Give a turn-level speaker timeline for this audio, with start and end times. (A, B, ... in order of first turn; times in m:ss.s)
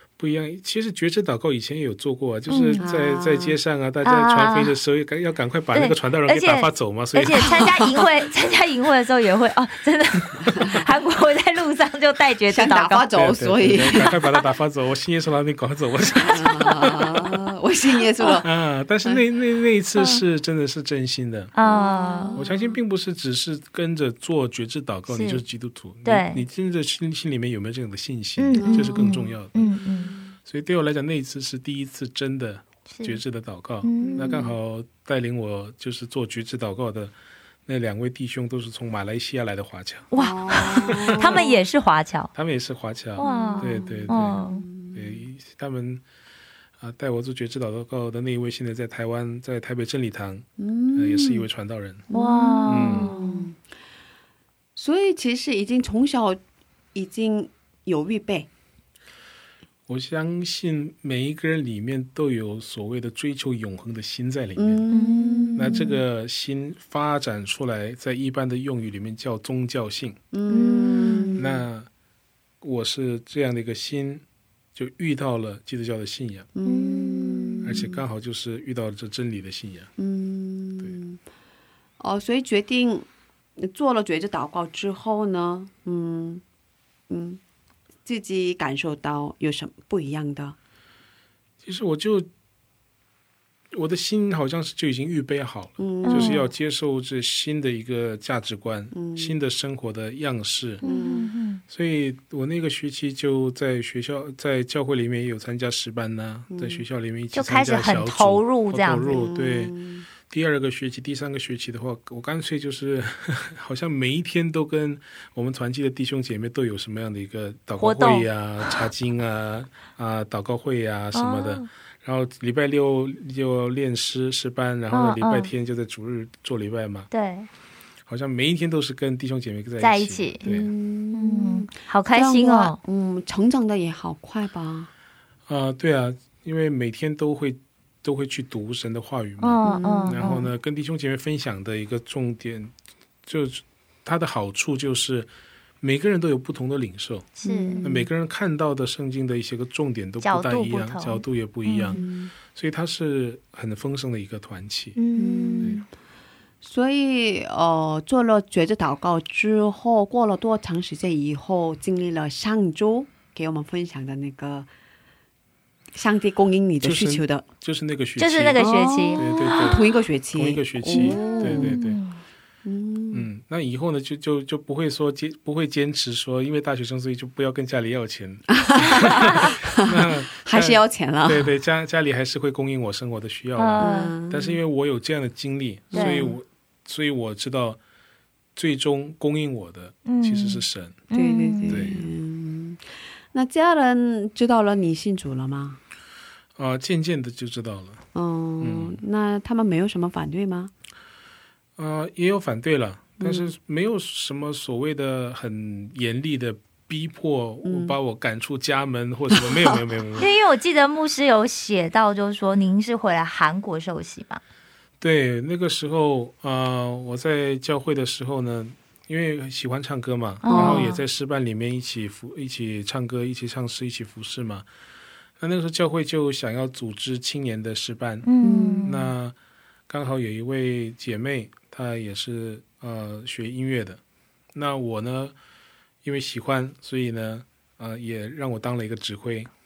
0:00.2-0:07.7 A
0:02.5-0:02.8 B
0:02.8-0:03.6 C
0:04.0-0:04.7 B
0:05.7-0:13.1 B
0:07.6-0:08.0 C
0:10.5-0:10.8 C
0:12.5-0:14.2 C
0:13.2-0:17.4 A
0:16.2-0:18.5 C
0:18.4-0:21.5 A
0:21.6-0:22.4 B
0:21.6-0:22.8 C
0:22.4-0:29.7 A
0:25.1-0:25.4 B
0:26.0-0:26.4 B
0:28.4-0:30.1 B
0:28.6-0:30.4 C
0:30.4-0:37.1 A
0:32.9-0:33.2 B
0:33.8-0:34.4 B
0:34.0-0:34.6 C
0:37.7-0:41.4 A
0:40.1-0:42.3 B
0:40.2-0:41.5 C
0:42.3-0:44.4 A
0:43.2-0:44.6 B
0:43.2-0:45.2 C
0:44.9-0:46.0 A
0:46.8-0:52.1 A
0:50.6-0:51.5 C
0:52.1-0:53.6 C
0:52.1-0:53.5 B
0:52.6-0:53.1 A
0:54.8-0:56.4 C
0:56.9-0:58.5 C
0:59.9-1:04.9 A
1:04.6-1:06.0 C
1:04.9-1:05.8 B
1:05.6-1:10.2 A
1:10.3-1:11.6 C
1:10.5-1:11.4 B
1:11.4-1:11.9 A
1:12.6-1:14.2 A
1:14.8-1:16.5 A
1:16.6-1:18.0 C
1:16.7-1:17.7 B
1:17.6-1:19.9 A
1:20.0-1:21.2 C
1:22.0-1:26.4 C
1:27.1-1:27.4 C
1:28.0-1:30.6 C
1:31.6-1:32.3 A
1:33.7-1:40.8 A
1:35.8-1:36.5 C
1:36.0-1:36.4 B
1:38.9-1:39.4 C
1:40.8-1:41.6 B
1:40.8-1:41.3 C
1:41.7-2:07.1 A
1:46.5-1:46.8 C
1:47.3-1:49.2 B
1:49.1-1:50.1 C
1:57.8-1:58.3 B
2:01.1-2:01.7 B
2:04.9-2:05.5 B
2:07.1-2:07.5 B
2:08.1-2:10.7 A
2:09.8-2:10.4 B
2:10.4-2:14.9 C
2:11.1-2:12.8 B
2:15.5-2:22.7 A
2:19.4-2:20.2 B
2:19.6-2:20.5 C
2:23.3-2:25.3 A
2:25.8-2:35.0 A
2:27.4-2:27.8 B
2:27.4-2:28.1 C
2:30.2-2:32.0 B
2:31.9-2:32.3 C
2:35.0-2:35.8 B
2:35.2-2:35.8 C
2:36.6-2:44.7 C
2:45.9-2:47.4 C
2:46.8-2:52.0 A
2:48.2-2:49.8 B
2:48.6-2:51.8 C
2:50.9-2:52.2 B
2:52.6-2:53.3 C
2:53.1-3:07.8 A
2:58.5-3:01.5 C
3:03.6-3:04.1 B
3:03.8-3:04.6 C
3:05.9-3:06.4 C
3:05.9-3:06.3 B
3:08.6-3:11.0 A
3:10.1-3:11.9 B
3:11.1-3:15.8 C
3:11.7-3:12.0 A
3:16.6-3:18.0 A
3:18.1-3:20.7 C
3:18.6-3:19.0 A
3:21.8-3:30.3 A
3:23.2-3:23.5 C
3:27.6-3:28.0 C
3:29.3-3:29.9 C
3:30.2-3:34.4 B
3:35.0-3:44.7 A
3:40.4-3:41.0 B
3:40.5-3:40.9 C
3:45.4-3:48.3 A
3:48.2-3:49.1 B
3:48.4-3:49.0 C
3:48.8-3:49.4 A
3:49.9-3:54.0 A
3:54.5-3:55.4 A
3:56.0-3:59.5 A